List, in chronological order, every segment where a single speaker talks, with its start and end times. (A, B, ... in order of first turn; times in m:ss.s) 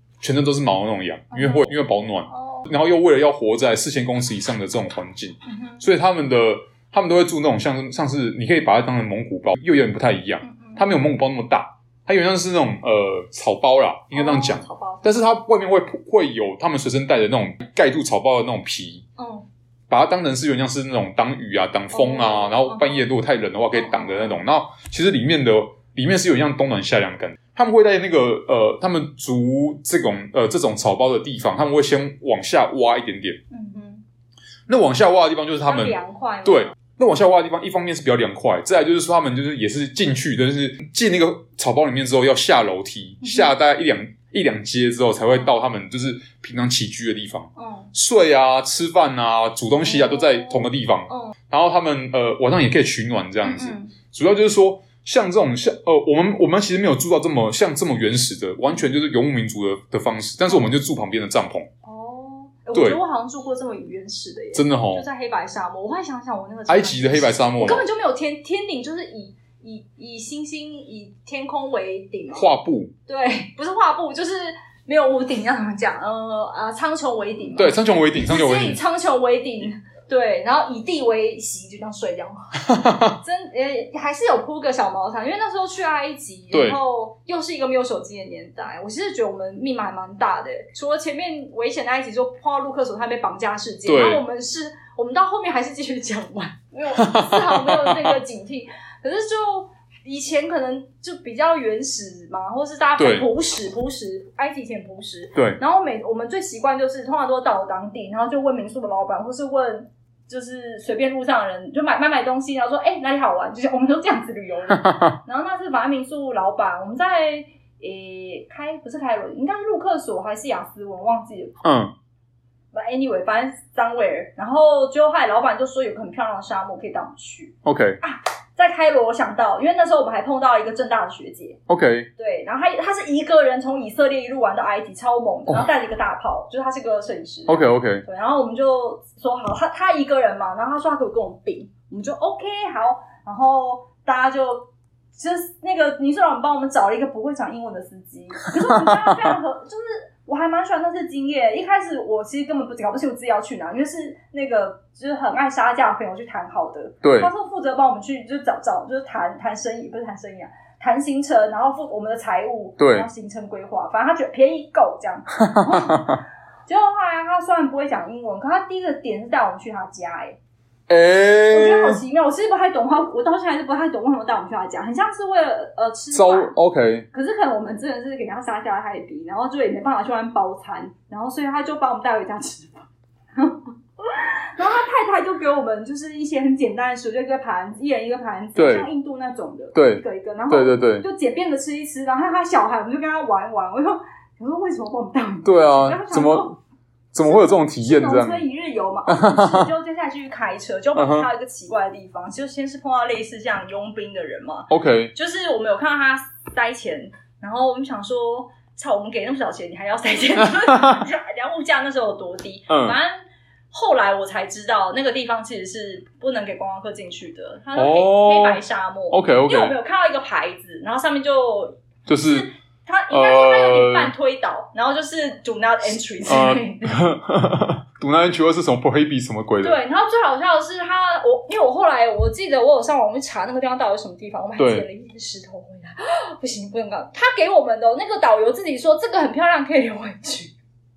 0:00.2-0:19.0 A
0:01.3-0:01.8 B
0:02.3-0:02.7 B
0:05.5-0:05.8 B
0:10.4-0:10.9 B
0:14.1-0:15.1 B
0:19.2-0:19.5 B
0:19.9-0:33.4 A
0:21.9-0:23.1 B
0:23.7-0:24.4 B
0:33.5-0:34.0 B
0:34.7-1:01.7 A
0:35.6-0:36.7 B
0:43.2-0:43.5 B
0:47.6-0:47.9 B
0:49.8-0:51.4 B
0:53.4-0:53.9 B
1:00.5-1:00.7 B
1:01.8-1:12.5 B
1:02.7-1:03.0 A
1:04.5-1:05.0 A
1:06.7-1:07.9 A
1:12.3-1:12.9 A
1:13.1-2:01.6 B
1:17.6-1:18.8 A
1:22.6-1:23.2 A
1:26.5-1:26.8 A
1:33.9-1:34.2 A
1:37.0-1:38.2 A
1:43.0-1:43.3 A
1:54.7-1:55.2 A
2:01.6-2:01.9 A
2:02.7-2:11.6 B
2:07.6-2:08.0 A
2:11.7-2:12.1 A
2:12.2-2:50.4 B
2:17.5-2:18.0 A
2:28.7-2:29.4 A
2:37.0-2:37.3 A
2:42.8-2:43.1 A
2:45.4-2:46.2 A
2:50.9-2:52.0 A
2:51.5-2:56.5 B
2:56.1-2:57.1 A
2:57.1-3:16.6 B
3:08.6-3:08.9 A
3:09.7-3:11.0 A
3:15.4-3:16.5 A
3:17.1-3:18.4 A
3:17.2-3:33.2 B
3:19.1-3:19.7 A
3:21.0-3:21.3 A
3:24.7-3:25.1 A
3:30.4-3:31.0 A
3:32.7-3:33.0 A
3:33.7-3:47.1 B
3:37.8-3:39.8 A
3:42.1-3:42.5 A
3:43.1-3:44.1 A
3:46.3-3:49.8 A
3:49.6-4:00.5 B
3:54.6-3:54.9 A